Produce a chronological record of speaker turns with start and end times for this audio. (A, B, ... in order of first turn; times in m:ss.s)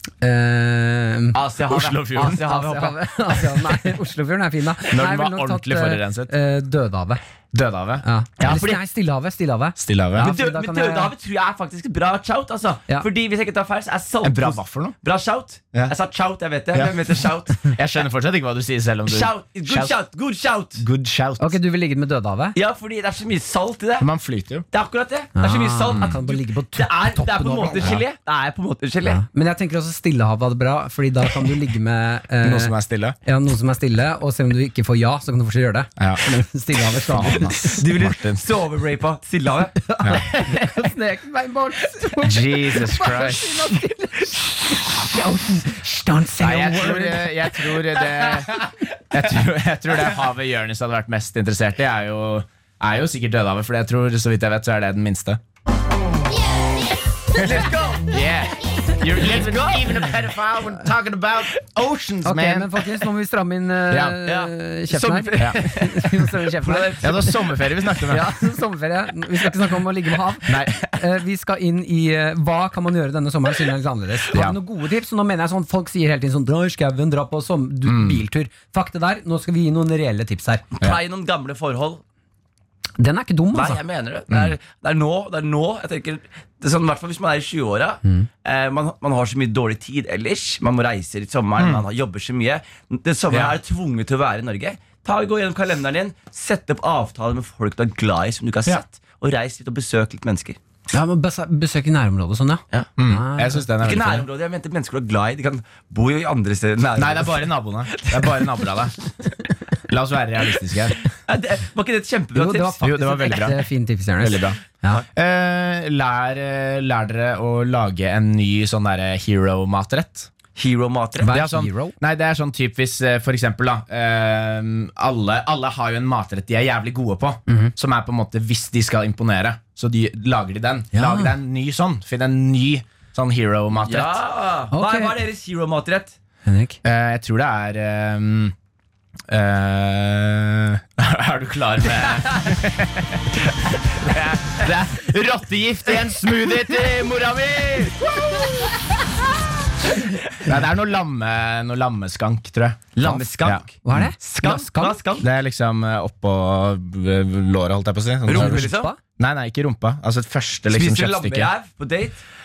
0:00.2-0:01.4 A
0:01.3-0:03.4 B
0:01.7-0:02.4 C
0:02.2-0:07.2 A
0:04.9-0:06.3 C
0:07.5-0:08.6 C
0:08.0-0:11.1 A
0:08.4-0:08.8 B
0:09.8-0:10.3 C
0:10.2-0:17.7 B
0:14.2-0:15.0 C
0:16.7-0:17.0 C
0:17.6-0:20.0 C
0:19.1-0:20.8 B
0:20.8-0:21.6 C
0:21.4-0:22.6 A
0:22.5-0:24.1 B
0:24.0-0:24.6 C
0:24.7-0:29.2 B
0:25.4-0:28.0 A
0:29.0-0:32.7 A
0:32.4-0:33.2 C
0:33.2-0:37.8 A
0:36.0-0:36.2 C
0:36.9-0:38.4 C
0:37.6-0:39.8 B
0:39.8-0:47.3 A
0:42.2-0:43.7 C
0:46.4-0:55.4 C
0:57.3-0:58.2 B
0:57.4-1:02.7 C
0:59.3-1:00.1 B
1:02.2-1:07.1 A
1:03.9-1:04.2 C
1:04.2-1:07.6 B
1:07.0-1:08.3 C
1:08.1-1:20.6 A
1:10.5-1:10.8 C
1:14.3-1:14.6 C
1:17.8-1:18.2 C
1:20.8-1:22.0 B
1:23.0-1:23.8 A
1:23.5-1:40.6 B
1:24.3-1:24.5 C
1:31.6-1:31.8 C
1:33.3-1:33.6 C
1:40.9-1:43.6 A
1:43.0-1:44.3 C
1:43.8-1:48.5 B
1:47.0-1:48.9 C
1:49.9-1:51.0 C
1:51.2-1:52.9 B
1:52.3-1:55.0 A
1:52.8-1:53.6 C
1:54.2-2:00.3 C
2:00.6-2:01.3 B
2:01.2-2:01.9 A
2:01.3-2:14.2 C
2:07.5-2:07.7 A
2:10.9-2:11.3 A
2:13.8-2:16.2 B
2:14.7-2:15.2 A
2:16.4-2:16.8 A
2:16.8-2:18.5 C
2:19.3-2:23.4 C
2:23.9-2:28.5 C
2:30.4-2:34.1 C
2:32.9-2:35.3 B
2:33.8-2:35.2 A
2:35.2-2:41.5 C
2:38.3-2:38.9 B
2:38.3-2:39.0 A
2:40.7-2:42.2 B